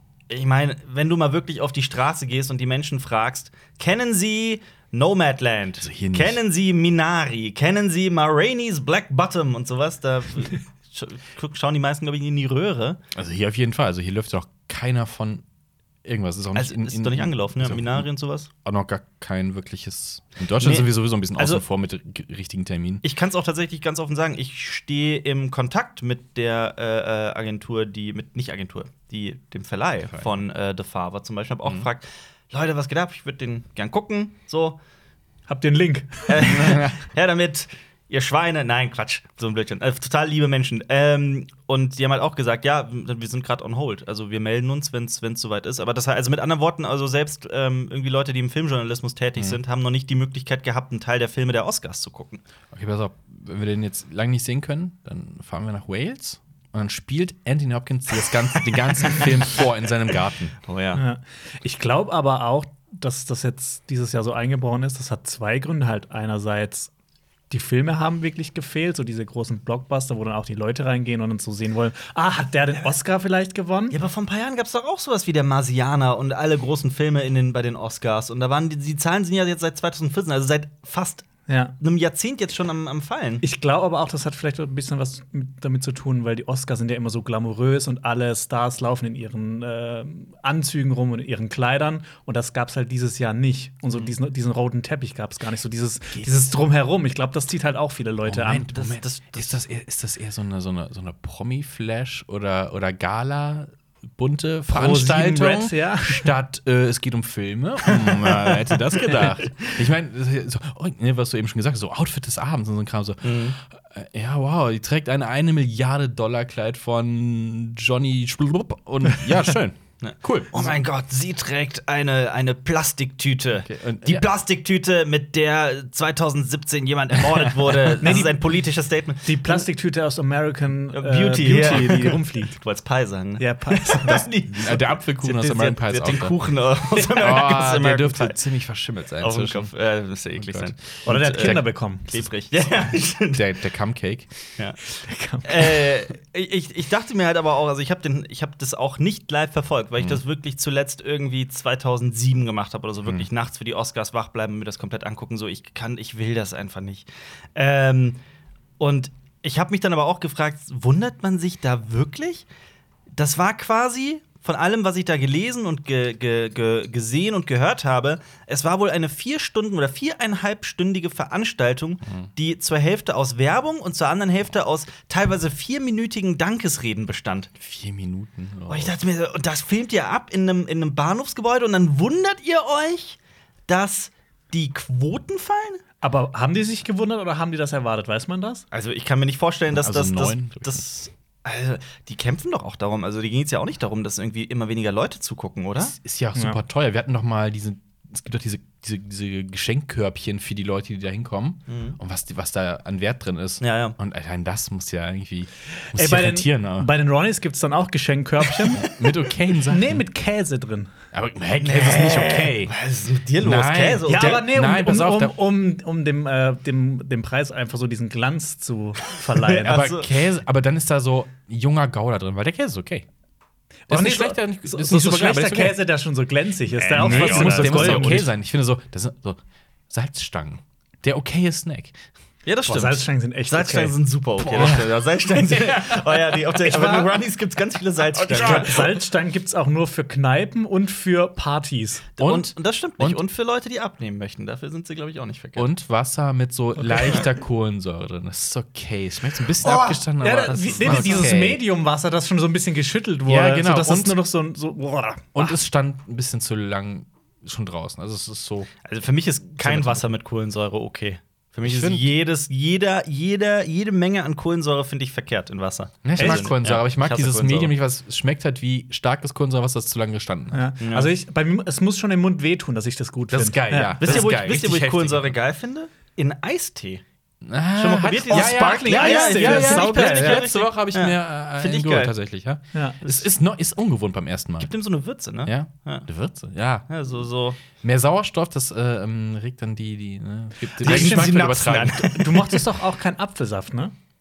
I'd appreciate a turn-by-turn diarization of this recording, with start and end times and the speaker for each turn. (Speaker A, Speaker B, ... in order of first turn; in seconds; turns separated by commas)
Speaker A: 0.3-13.0, Speaker B: 5.8-6.4, Speaker B: 13.1-15.4, Speaker B: 16.0-18.1, Speaker A: 16.5-18.5, Speaker B: 18.6-23.0, Speaker A: 20.6-21.6, Speaker A: 23.0-34.8, Speaker C: 35.5-36.8, Speaker A: 36.3-52.4, Speaker B: 52.7-60.6, Speaker A: 60.7-61.0, Speaker C: 60.9-66.9, Speaker C: 67.5-74.0, Speaker A: 73.9-81.3, Speaker C: 81.5-81.8, Speaker A: 81.8-83.4, Speaker C: 83.4-98.7, Speaker B: 96.2-96.5, Speaker B: 98.2-120.8, Speaker A: 98.7-99.6, Speaker C: 104.7-106.3, Speaker A: 108.5-109.7, Speaker A: 113.2-113.6, Speaker A: 120.0-129.7, Speaker B: 123.7-124.3, Speaker C: 128.0-128.4, Speaker C: 129.2-132.6, Speaker A: 130.9-138.4, Speaker B: 131.7-132.1, Speaker C: 133.4-134.3, Speaker B: 134.4-136.4, Speaker B: 136.9-139.7, Speaker A: 139.2-143.4, Speaker B: 140.4-140.8, Speaker C: 141.1-142.2, Speaker B: 141.4-141.6, Speaker B: 143.3-144.3, Speaker C: 144.9-145.9, Speaker A: 145.4-158.2, Speaker A: 158.8-162.5, Speaker A: 163.1-177.5, Speaker B: 177.6-179.0, Speaker A: 178.7-185.8, Speaker C: 186.0-188.6, Speaker A: 188.7-195.9, Speaker B: 189.7-190.9, Speaker B: 195.8-206.9, Speaker A: 201.7-202.0, Speaker A: 203.6-204.0, Speaker C: 205.9-208.8, Speaker B: 208.7-210.0, Speaker C: 209.7-210.9, Speaker B: 211.1-212.7, Speaker A: 211.6-214.5, Speaker B: 213.4-215.4, Speaker C: 214.1-219.9, Speaker A: 219.3-220.2, Speaker B: 219.7-223.1, Speaker C: 223.9-228.3, Speaker B: 223.9-225.8, Speaker A: 226.8-228.2, Speaker B: 227.0-232.0, Speaker A: 232.5-238.8, Speaker C: 232.7-234.0, Speaker B: 234.4-236.6, Speaker C: 236.7-237.1, Speaker B: 238.1-238.9, Speaker C: 238.3-242.1, Speaker A: 242.2-245.7, Speaker B: 242.2-243.2, Speaker B: 245.6-251.6, Speaker C: 249.6-255.6, Speaker A: 250.8-251.3, Speaker B: 253.3-254.2, Speaker B: 255.3-258.7, Speaker A: 258.9-267.7, Speaker B: 259.6-260.0, Speaker B: 261.6-262.1, Speaker B: 266.0-270.7, Speaker C: 266.2-266.5, Speaker C: 270.5-274.2, Speaker A: 270.8-271.1, Speaker B: 273.3-275.4, Speaker A: 274.0-277.0, Speaker B: 277.4-284.7, Speaker A: 277.8-282.1, Speaker C: 278.3-280.4, Speaker A: 283.0-283.3, Speaker A: 284.6-286.1, Speaker B: 285.4-286.9, Speaker A: 286.9-287.6, Speaker B: 287.8-292.0, Speaker C: 290.8-293.9, Speaker A: 290.8-292.6